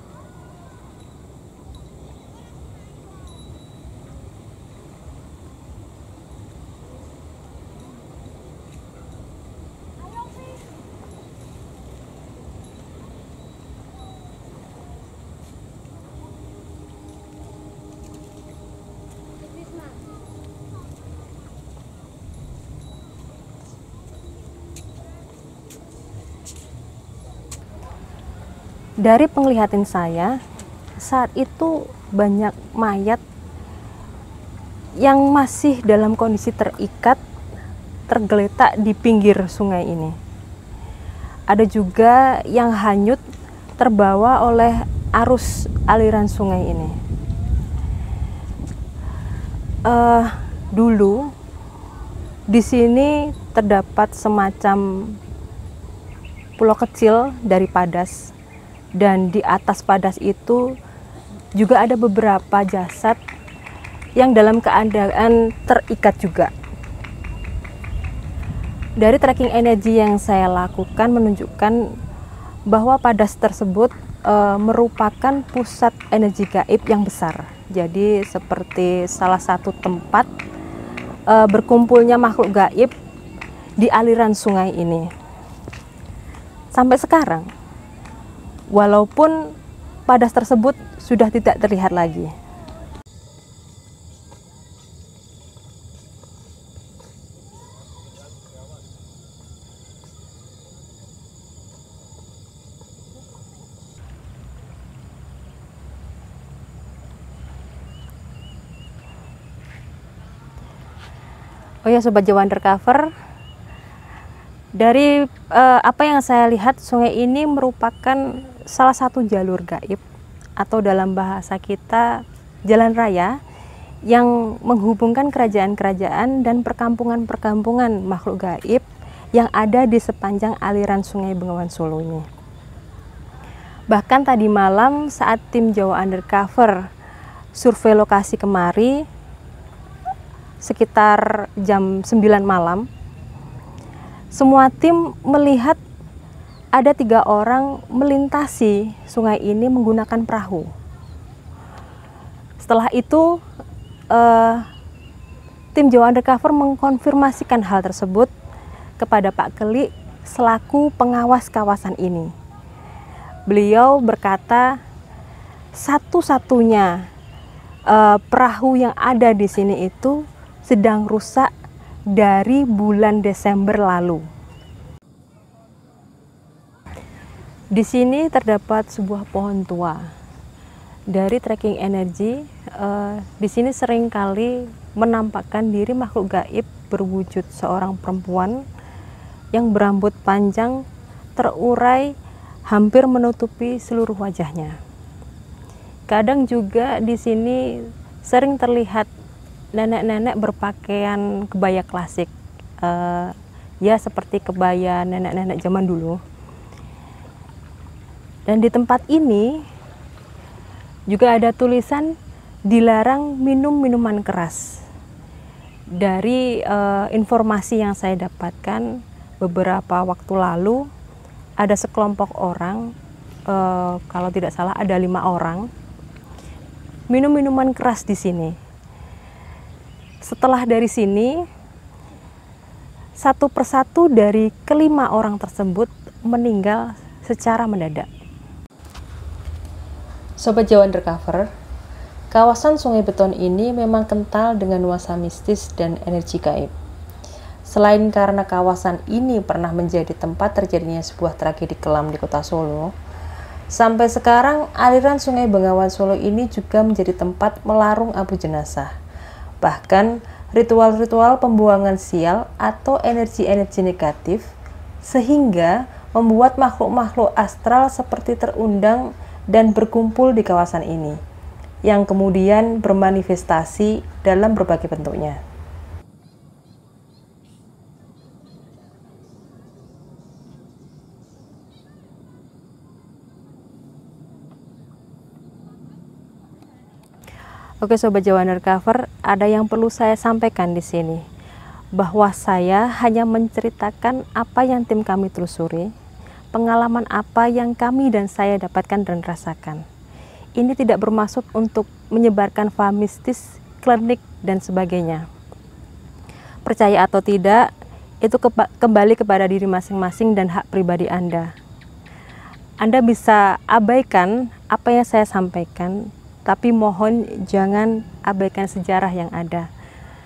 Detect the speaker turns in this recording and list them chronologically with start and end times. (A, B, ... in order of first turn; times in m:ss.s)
0:29.0-0:30.4 A
0:31.0-0:33.2 A
0:35.0-0:37.2 A
0:38.1-0:40.2 A
0:41.5-0:43.2 A
0:43.8-0:47.0 A
0:49.8-0:51.3 A
0:52.5-0:55.2 A
0:56.6-0:58.3 A
0:59.0-1:00.8 A
1:01.6-1:03.2 A
1:04.2-1:06.5 A
1:09.0-1:11.9 A
1:12.7-1:20.3 A
1:21.3-1:22.9 A
1:23.8-1:25.1 A
1:26.7-1:27.5 A
1:28.7-1:29.5 A
1:30.1-1:32.3 A
1:51.8-1:53.1 A
1:54.8-2:00.0 A
2:00.6-2:03.4 A
2:04.1-2:12.2 A
2:13.9-2:16.9 A
2:17.5-2:19.0 A
2:20.6-2:22.9 A
2:24.3-2:25.8 A
2:26.7-2:30.7 A
2:32.6-2:33.4 A
2:34.1-2:34.7 A
2:35.8-2:38.3 A
2:39.0-2:42.3 A
2:43.5-2:44.8 A
2:45.7-2:47.1 A
2:47.9-2:51.5 A
2:52.1-2:54.2 A
2:57.7-3:00.1 A
3:01.1-3:08.6 A
3:09.5-3:10.8 A
3:11.4-3:12.1 A
3:12.7-3:14.8 A
3:16.1-3:19.1 A
3:19.8-3:26.2 A
3:28.5-3:29.6 A
3:31.1-3:32.1 A
3:32.7-3:34.8 A
3:36.0-3:40.9 A
3:41.6-3:42.9 A
3:43.5-3:45.7 A
3:47.1-3:48.6 A
3:50.2-3:51.4 A
3:53.2-3:58.1 A
4:00.4-4:01.5 A
4:02.3-4:06.7 A
4:07.6-4:12.9 A
4:13.7-4:18.9 A
4:19.6-4:24.5 A
4:25.0-4:31.2 A
4:31.8-4:35.4 A
4:47.8-4:51.2 A
4:51.9-4:55.9 A
4:56.5-4:59.8 A
5:00.6-5:05.2 A
5:06.6-5:07.7 A
5:08.2-5:11.5 A
5:12.8-5:19.7 A